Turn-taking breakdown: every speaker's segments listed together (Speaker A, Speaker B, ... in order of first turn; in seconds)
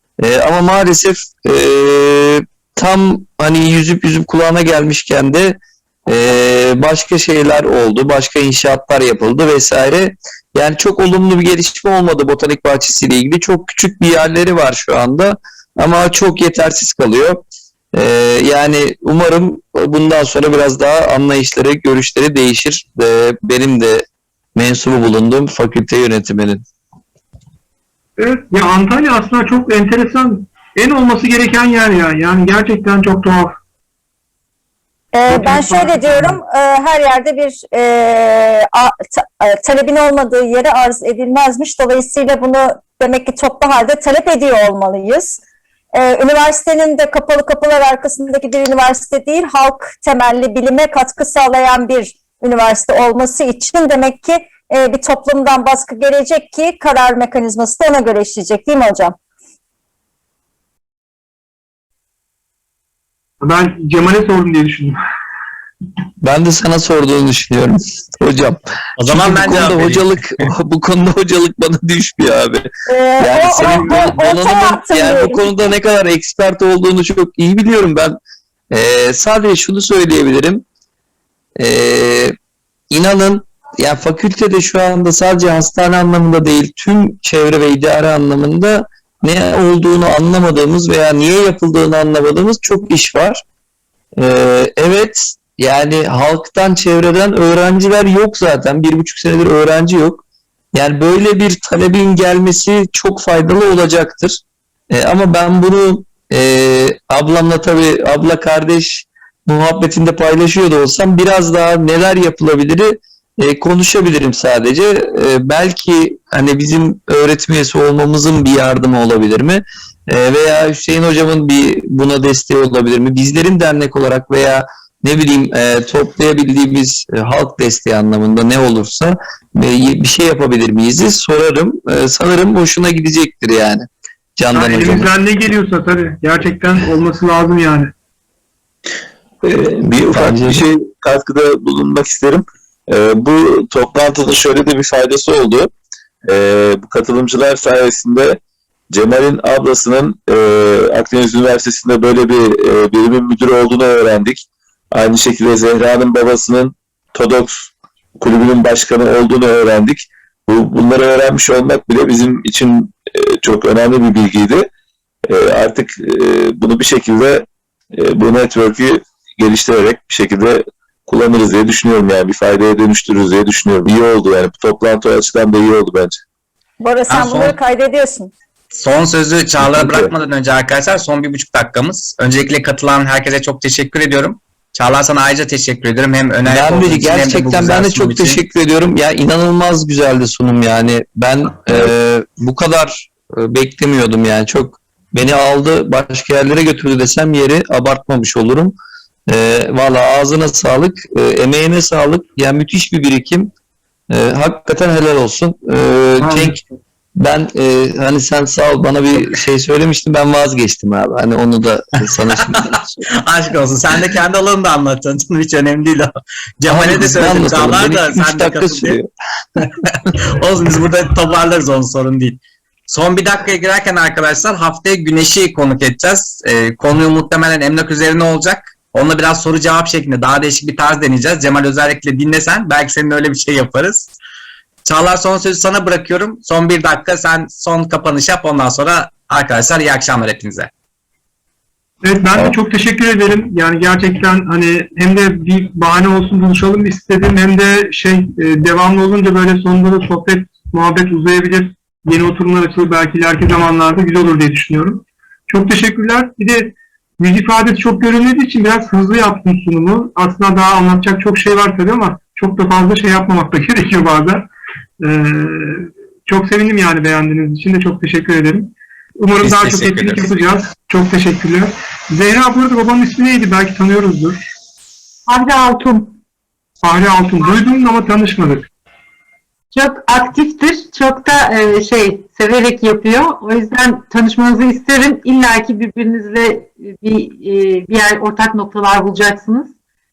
Speaker A: 0.2-24.1, 24.6-26.6, 66.2-72.7, 73.2-78.2, 78.7-80.7, 81.6-82.4, 82.9-93.4, 94.2-135.1, 139.8-140.6, 186.4-198.7, 199.3-203.5, 204.1-206.6, 207.2-212.9, 216.7-219.1
Speaker B: 28.2-33.6, 35.3-36.4, 63.4-65.0, 73.7-74.1, 134.5-137.9, 206.2-206.8, 242.0-264.5, 265.0-274.4, 276.8-278.7
Speaker C: 35.1-45.4, 45.9-59.2, 72.9-75.5, 176.8-178.3
Speaker D: 69.0-70.5, 177.1-177.6, 178.8-188.4, 212.2-219.0, 219.6-234.1, 234.8-240.7, 269.4-270.4
Speaker E: 139.4-145.7, 146.2-148.4, 148.9-164.7, 165.2-176.2, 179.7-180.1
Speaker F: 275.3-276.2, 279.7-289.7